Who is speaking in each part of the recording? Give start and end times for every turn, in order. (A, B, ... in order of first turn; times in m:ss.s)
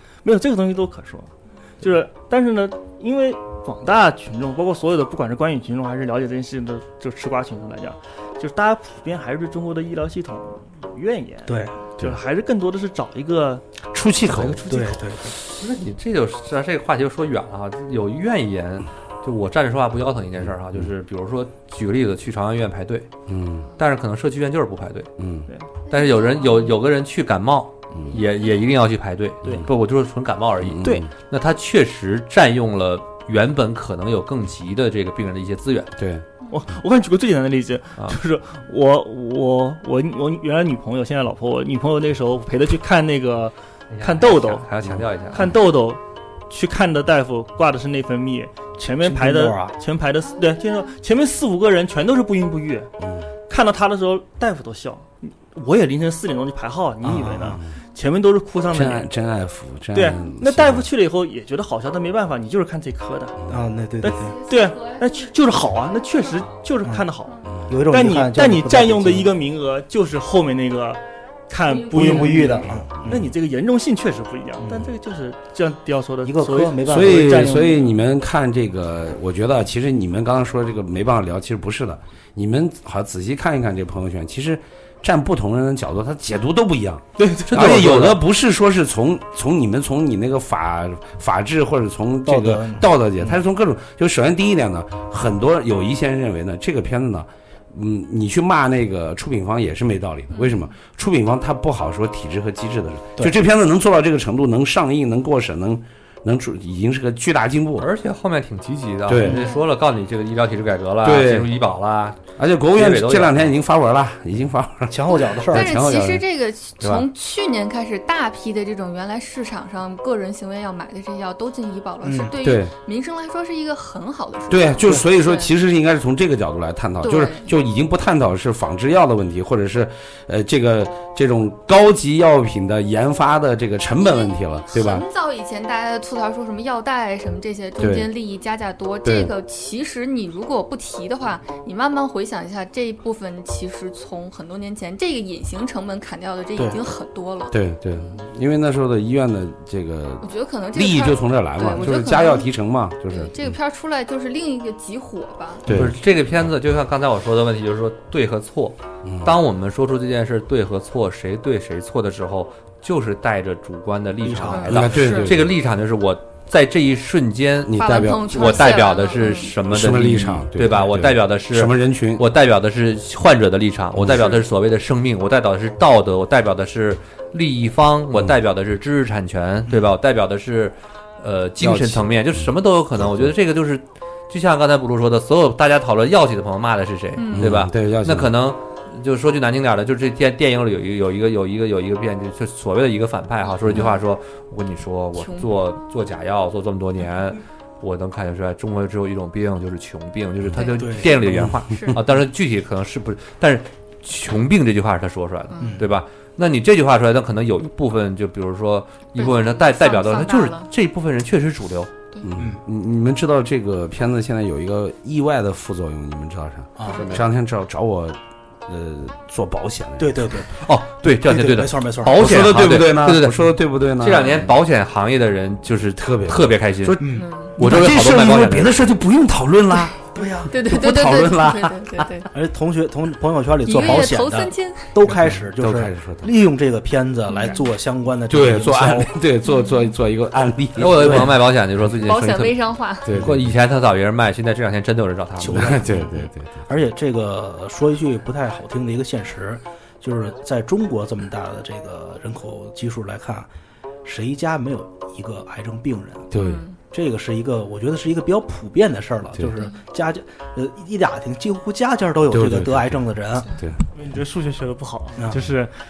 0:00.2-0:13.6 A
0:11.5-0:11.8 B
0:13.9-0:14.6 C
0:14.3-0:15.1 A
0:14.7-0:15.4 B
0:15.3-0:23.1 D
0:23.3-0:23.6 C
0:23.8-0:25.1 D
0:25.2-0:25.5 C
0:25.9-0:35.9 D
0:25.9-0:26.5 E
0:28.1-0:28.5 E
0:30.6-0:31.1 C
0:36.0-0:36.2 C
0:36.5-0:44.7 A
0:43.9-0:45.5 D
0:45.3-0:52.9 A
0:49.0-0:49.8 B
0:53.0-0:53.3 C
0:53.5-0:59.1 A
0:57.0-0:57.6 B
0:58.7-1:00.9 C
0:59.9-1:03.4 A
1:03.4-1:03.7 C
1:03.5-1:04.4 B
1:04.0-1:07.3 A
1:04.4-1:05.1 E
1:07.3-1:07.6 E
1:07.6-1:09.3 B
1:07.9-1:17.9 A
1:11.7-1:12.5 E
1:11.9-1:13.3 B
1:14.6-1:14.9 B
1:16.2-1:17.8 B
1:16.8-1:47.9 C
1:27.2-1:27.9 A
1:27.6-1:27.9 D
1:32.3-1:33.4 B
1:47.8-1:52.2 D
1:49.1-1:49.4 C
1:49.2-1:49.6 E
1:51.0-1:51.6 C
1:52.4-1:56.2 C
1:52.7-1:53.5 D
1:54.9-1:55.8 B
1:55.4-2:05.5 E
1:56.8-1:57.1 D
2:02.0-2:02.4 B
2:02.4-2:02.7 C
2:04.5-2:15.0 C
2:07.0-2:07.5 E
2:14.1-2:27.6 E
2:17.8-2:18.1 C
2:19.0-2:19.3 C
2:27.5-2:33.6 C
2:30.2-2:32.5 E
2:33.1-2:35.7 E
2:35.6-2:36.0 C
2:35.7-3:32.0 D
2:39.0-2:39.3 C
2:44.2-2:44.9 B
2:44.5-2:45.4 E
2:44.7-2:45.6 C
2:47.7-2:48.4 C
2:47.7-2:49.5 E
2:49.6-2:52.3 C
2:54.0-2:54.2 C
3:01.6-3:02.5 C
3:07.2-3:07.6 E
3:07.3-3:08.3 C
3:13.7-3:14.0 E
3:15.2-3:15.5 E
3:20.6-3:21.0 E
3:20.8-3:21.1 B
3:21.7-3:22.0 E
3:29.2-3:30.7 E
3:32.2-3:40.3 C
3:36.8-3:37.1 B
3:36.9-3:37.2 D
3:40.0-3:42.3 B
3:40.6-3:49.0 D
3:42.1-3:44.6 C
3:46.0-3:52.2 C
3:47.0-3:47.3 B
3:47.1-3:47.6 E
3:50.2-3:50.6 B
3:50.5-3:52.3 E
3:52.3-3:59.2 B
3:53.6-3:54.9 E
3:55.1-3:56.3 C
3:57.3-3:57.7 E
3:58.3-4:01.4 C
3:59.5-3:59.8 E
4:00.8-4:02.6 D
4:02.0-4:03.1 E
4:03.0-4:03.5 C
4:03.1-4:05.8 D
4:05.4-4:13.5 B
4:05.5-4:06.5 C
4:14.0-4:16.4 B
4:16.3-4:16.6 C
4:16.4-4:16.8 E
4:16.9-4:23.5 B
4:22.3-4:23.8 C
4:23.9-4:25.7 A